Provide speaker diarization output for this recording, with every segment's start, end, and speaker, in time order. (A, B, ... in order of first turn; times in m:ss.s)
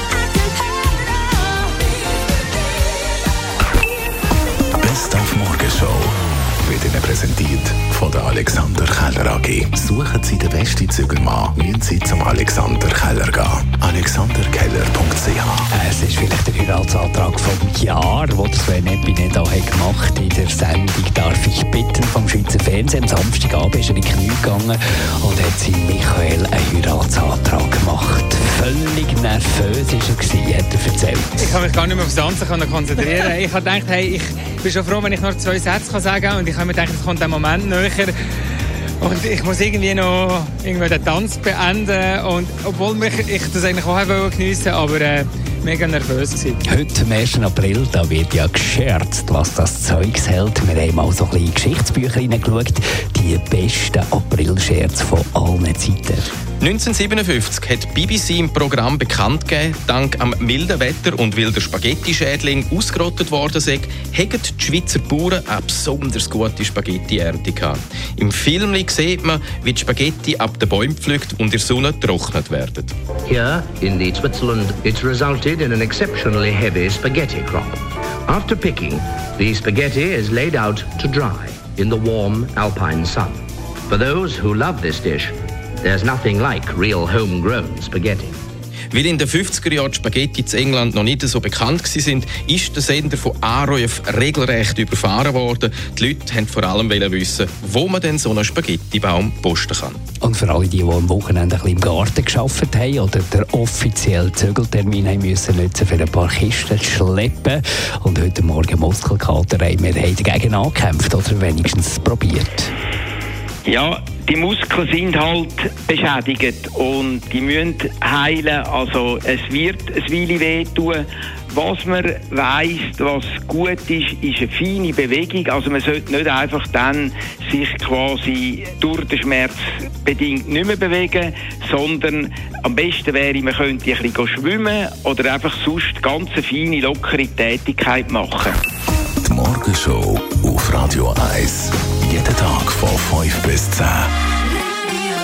0:04.8-0:15.7 A
0:15.7-0:31.4 B
0:31.4-0:38.1 C
0:39.0-0:46.6 C
0:46.7-0:56.3 B
0:56.6-1:12.9 D
1:13.2-1:28.4 E
1:28.9-1:40.0 D
1:40.2-1:52.7 B
1:53.6-2:18.6 F
2:19.2-2:24.1 A